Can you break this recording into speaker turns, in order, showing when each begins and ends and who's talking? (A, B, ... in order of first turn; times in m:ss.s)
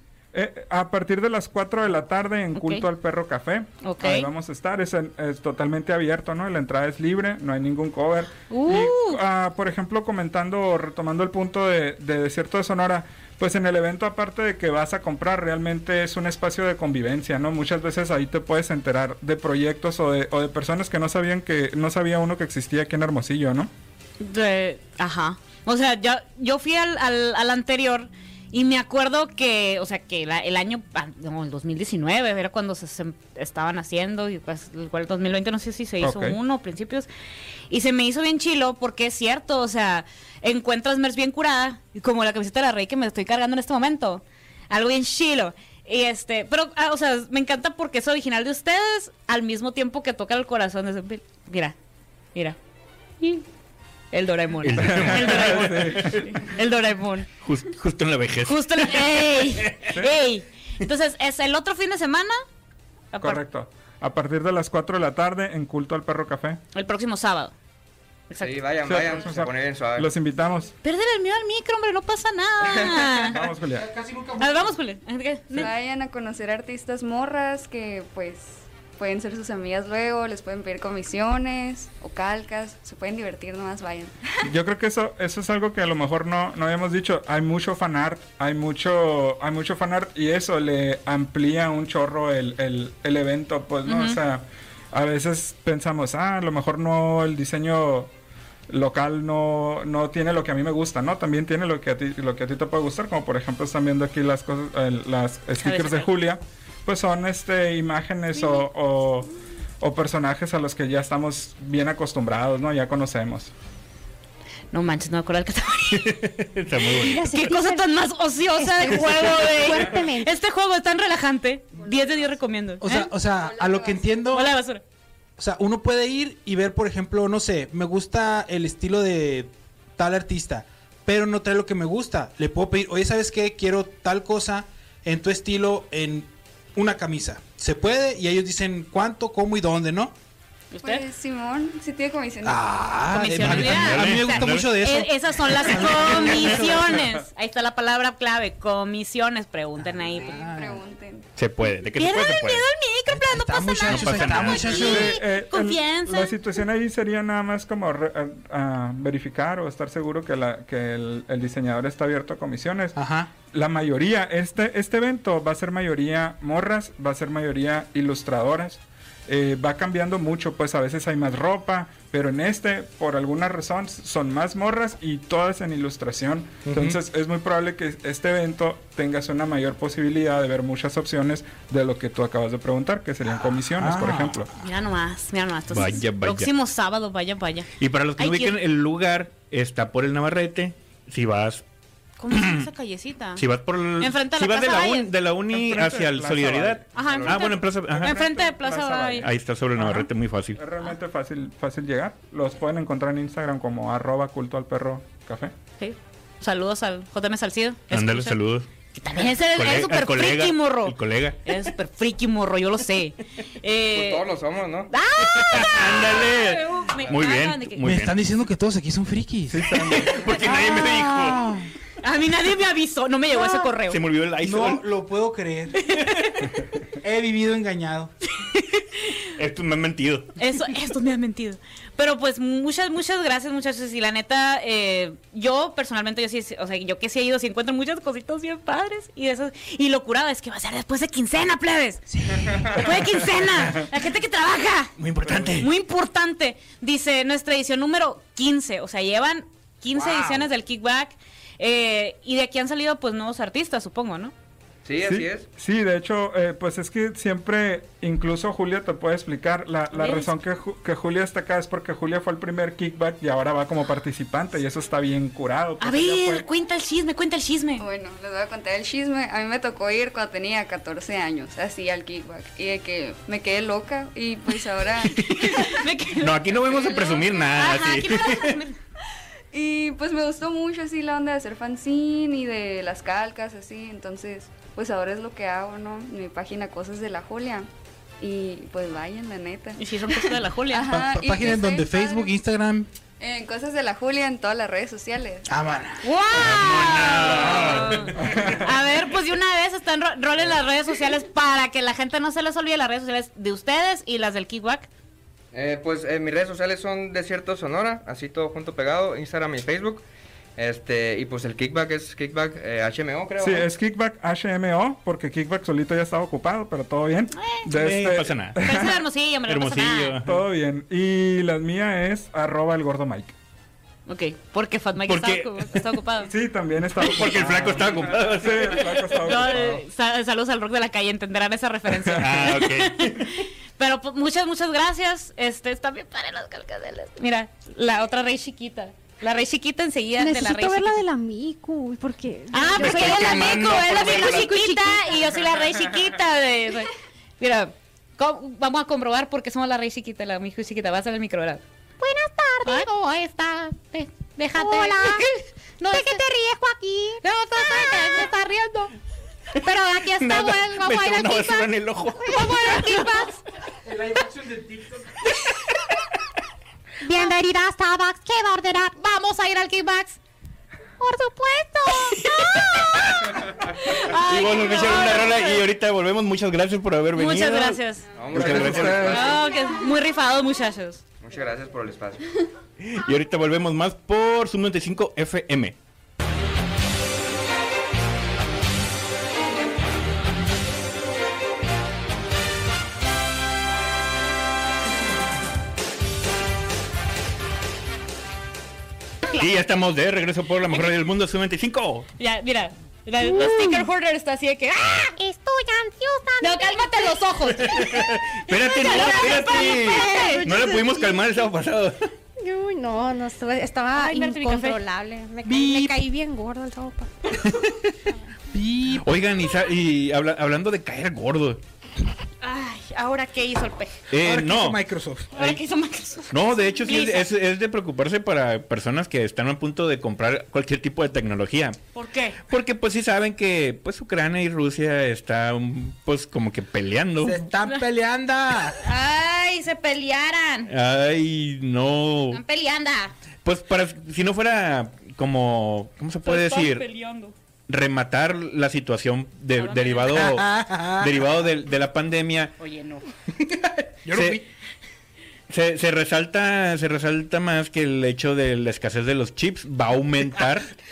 0:00.3-0:23.7 A
0:02.5-0:02.9 B
0:03.8-0:04.3 B
0:08.5-0:09.2 B
0:24.2-0:37.1 B
0:36.0-0:36.4 A
0:37.7-0:51.7 B
0:53.2-0:53.4 B
0:54.1-0:57.3 B
0:54.6-0:56.3 C
0:54.8-0:56.3 A
0:57.4-0:59.9 C
0:58.4-1:02.4 B
1:03.1-1:03.4 B
1:03.2-1:06.6 A
1:06.7-1:07.5 B
1:08.3-1:08.6 B
1:08.4-1:10.1 D
1:08.8-1:10.7 A
1:10.8-1:13.4 B
1:13.3-1:13.9 A
1:13.4-1:14.8 E
1:14.4-1:15.7 B
1:15.5-1:24.3 F
1:24.4-1:38.1 A
1:33.8-1:34.2 B
1:38.7-1:49.3 A
1:45.6-1:46.1 B
1:49.8-1:53.5 A
1:54.7-1:56.2 B
1:55.9-1:57.2 C
1:56.9-1:58.0 G
1:57.3-2:03.1 B
1:58.6-2:00.3 G
2:01.7-2:02.4 F
2:02.8-2:04.5 E
2:03.2-2:04.3 F
2:04.3-2:04.8 B
2:05.4-2:20.1 E
2:20.7-2:21.0 B
2:20.8-2:23.1 F
2:22.4-2:27.0 E
2:23.1-2:30.4 B
2:23.3-2:24.9 C
2:30.1-2:30.8 E
2:30.1-2:31.3 F
2:31.4-2:32.6 C
2:31.9-2:36.4 B
2:33.1-2:35.2 E
2:33.8-2:35.0 C
2:34.7-2:43.0 A
2:43.0-2:43.3 E
2:43.5-3:04.5 A
2:56.6-2:57.0 E
3:03.2-3:04.4 E
3:04.6-3:08.6 B
3:05.7-3:06.5 C
3:07.8-3:11.6 C
3:12.2-3:13.4 B
3:12.3-3:12.7 C
3:13.4-3:18.2 C
3:14.0-3:15.1 B
3:15.5-3:25.5 A
3:16.9-3:19.3 B
3:17.0-3:17.4 D
3:19.2-3:20.6 C
3:25.8-3:28.4 B
3:27.9-3:31.6 C
3:29.0-3:34.3 B
3:33.9-3:34.9 D
3:34.9-3:37.8 B
3:35.2-3:38.2 C
3:37.8-3:41.7 E
3:39.5-3:41.5 C
3:39.7-3:40.2 A
3:42.0-3:44.0 B
3:43.8-3:44.8 C
3:44.4-3:45.9 E
3:45.9-3:46.4 B
3:47.0-3:48.1 E
3:48.4-3:49.3 B
3:49.3-3:50.4 C
3:50.4-4:04.9 B
4:02.2-4:02.6 E
4:05.0-4:05.7 C
4:05.5-4:14.3 B
4:10.0-4:10.4 E
4:14.8-4:15.5 D
4:15.0-4:26.4 A
4:19.9-4:20.3 B
4:25.8-4:27.8 B
4:27.8-4:35.8 F
4:35.2-4:38.8 B
4:36.2-4:38.6 C
4:37.0-4:37.2 F
4:39.5-4:47.7 F
4:48.2-4:52.3 F
4:49.8-4:50.9 B
4:50.9-4:52.9 E
4:53.2-4:55.5 F
4:55.5-4:56.0 E
4:56.0-5:04.9 B
4:56.3-4:58.4 C
4:58.2-4:58.7 A
5:05.5-5:10.0 D
5:10.6-5:13.7 D
5:13.4-5:19.0 A
5:17.4-5:17.6 B
5:17.7-5:18.6 C
5:18.6-5:20.2 B
5:19.5-5:20.4 C
5:20.2-5:23.3 A
5:24.1-5:26.3 B
5:25.0-5:25.9 C
5:26.2-5:29.8 A
5:27.0-5:29.6 C
5:29.2-5:41.0 B
5:32.0-5:32.4 A
5:32.2-5:33.4 C
5:40.2-5:45.3 G
5:42.5-5:51.6 B
5:42.8-5:44.4 C
5:52.0-5:52.9 G
5:52.6-5:56.2 B
5:54.5-5:55.3 G
5:55.8-5:58.9 G
5:57.2-5:58.6 B
5:59.6-6:03.1 C
5:59.6-6:03.4 G
6:02.4-6:03.2 B
6:03.8-6:05.1 E
6:07.0-6:10.2 G
6:11.0-6:12.9 G
6:12.6-6:13.3 C
6:13.7-6:15.6 B
6:14.1-6:17.8 C
6:17.1-6:18.1 B
6:18.1-6:19.4 D
6:18.3-6:19.2 A
6:18.3-6:19.3 C
6:18.8-6:21.0 B
6:21.2-6:22.2 D
6:22.8-6:25.8 C
6:39.3-6:42.1 C
6:42.2-6:45.1 B
6:43.3-6:43.8 G
6:45.1-6:47.2 G
6:46.4-6:48.0 B
6:47.5-6:52.0 C
6:48.5-6:50.4 B
6:48.5-6:51.2 G
6:52.4-6:57.4 G
6:53.9-6:54.8 B
6:55.4-6:56.0 E
6:57.3-6:57.9 C
6:58.5-6:59.1 E
6:59.0-7:01.6 C
7:02.4-7:03.9 B
7:04.1-7:04.8 C
7:04.2-7:05.3 E
7:05.3-7:07.3 B
7:06.3-7:11.8 C
7:11.9-7:12.4 B
7:12.4-7:17.5 C
7:17.2-7:18.8 E
7:18.8-7:20.7 B
7:20.7-7:22.4 C
7:22.3-7:23.1 B
7:23.4-7:26.9 C
7:26.2-7:27.3 B
7:27.7-7:32.5 C
7:29.5-7:30.3 B
7:30.1-7:31.3 E
7:32.6-7:33.0 B
7:33.3-7:34.4 E
7:34.1-7:34.4 C
7:35.5-7:40.7 C